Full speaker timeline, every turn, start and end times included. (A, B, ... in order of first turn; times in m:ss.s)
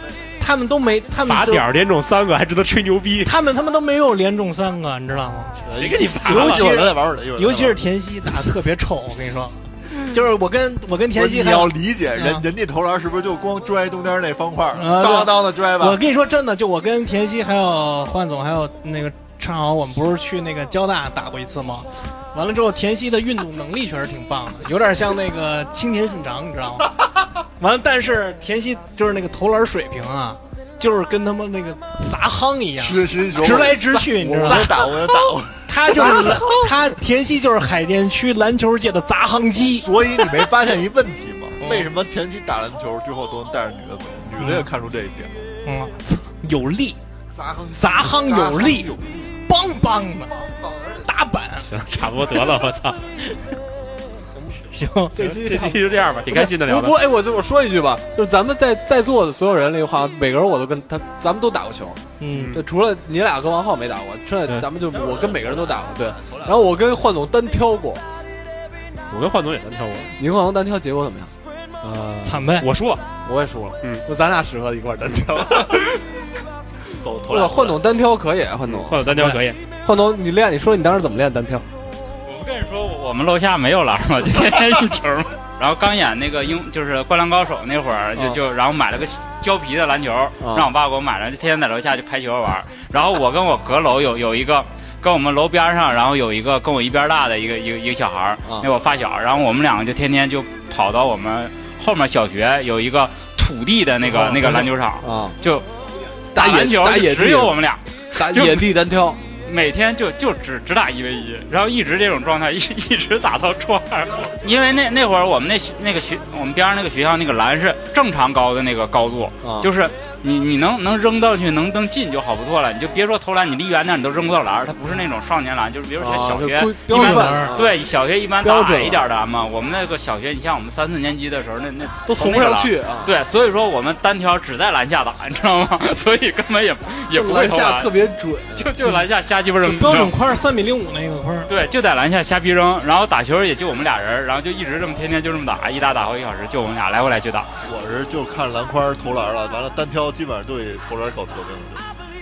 0:00.4-0:01.6 A
0:01.2-0:03.3 B
0:03.2-0:05.6 A
0:05.6-0:07.8 C
0:05.8-0:06.7 B
0:06.2-0:12.4 A
0:11.1-0:16.0 C
0:14.7-0:27.0 A
0:27.6-0:34.7 A
0:32.8-0:36.6 C
0:35.6-0:40.4 A
0:39.7-0:45.4 C
0:41.6-0:41.9 A
0:44.4-0:44.7 A
0:45.6-0:47.0 A
0:47.3-0:49.3 C
0:47.7-0:48.9 A
0:49.4-0:50.3 A
0:50.3-0:51.1 C
0:51.0-0:52.5 A
0:51.6-0:53.0 B
0:53.2-0:53.6 A
0:54.3-1:02.0 D
0:54.7-0:55.7 A
0:55.2-0:57.0 B
1:02.2-1:02.6 A
1:02.3-1:02.6 B
1:02.5-1:08.0 D
1:04.8-1:06.9 C
1:09.1-1:10.1 B
1:10.2-1:11.3 D
1:11.8-1:13.0 B
1:12.2-1:12.7 A
1:13.2-1:15.8 D
1:15.6-1:16.0 C
1:16.9-1:17.8 C
1:17.3-1:19.2 D
1:18.6-1:19.6 B
1:19.1-1:19.4 A
1:19.8-1:21.6 D
1:22.2-1:45.6 E
1:30.4-1:30.7 D
1:44.0-1:45.4 D
1:46.3-2:18.0 E
1:46.3-1:47.6 D
1:48.2-1:49.2 D
1:59.4-1:59.7 D
2:06.0-2:07.8 D
2:06.9-2:07.6 A
2:08.4-2:09.0 D
2:12.0-2:13.1 D
2:17.1-2:18.7 D
2:18.5-2:20.2 E
2:19.6-2:21.5 A
2:21.5-2:27.5 E
2:27.6-2:31.8 C